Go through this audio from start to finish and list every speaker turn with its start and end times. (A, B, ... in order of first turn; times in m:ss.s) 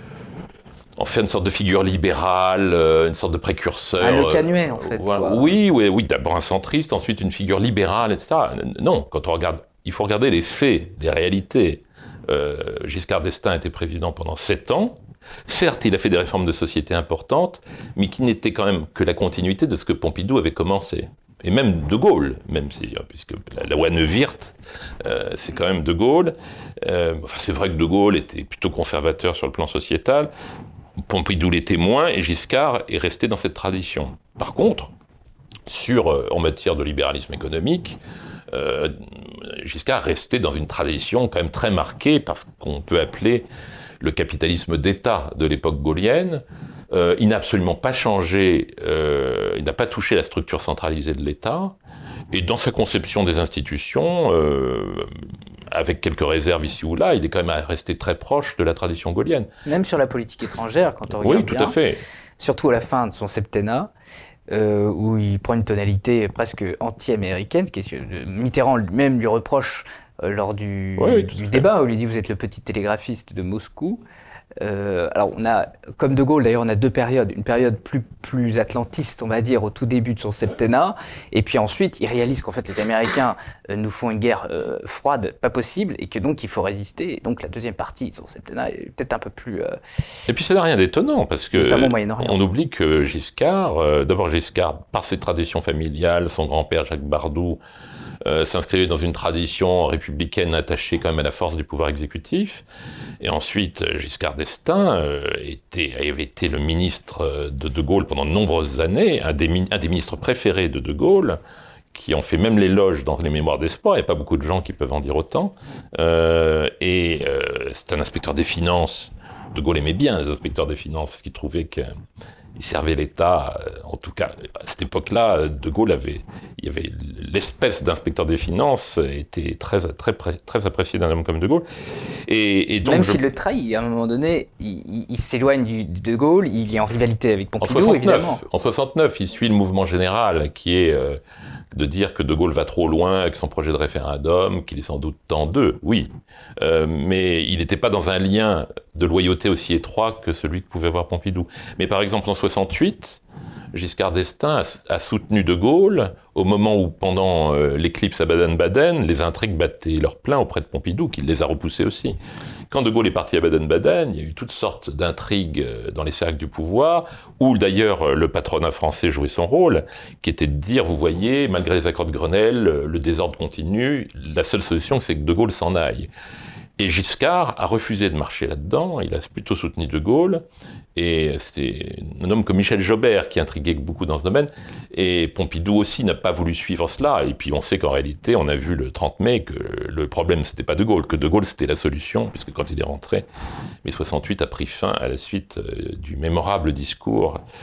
0:01.0-0:30.3 A
0:04.0-0:05.5 B
0:31.0-0:34.9 A
0:35.7-0:38.0 A
0:38.5-0:43.5 A
0:44.0-0:51.8 A
0:52.3-0:55.1 A
0:55.7-0:59.5 A
0:59.7-1:01.8 B
1:01.2-1:02.0 A
1:02.4-1:03.9 B
1:04.5-1:14.0 B
1:11.0-1:11.6 A
1:14.6-1:29.8 B
1:30.3-1:37.6 A
1:31.5-1:32.4 B
1:38.2-1:42.6 A
1:43.2-1:51.4 A
1:51.9-2:01.9 A
2:02.6-2:11.6 A
2:12.2-2:13.2 A
2:12.8-2:18.4 B
2:17.6-2:21.2 A
2:21.7-2:33.2 A
2:33.7-2:42.2 A
2:42.7-2:56.1 A
2:56.8-3:13.3 A
3:13.8-3:17.4 A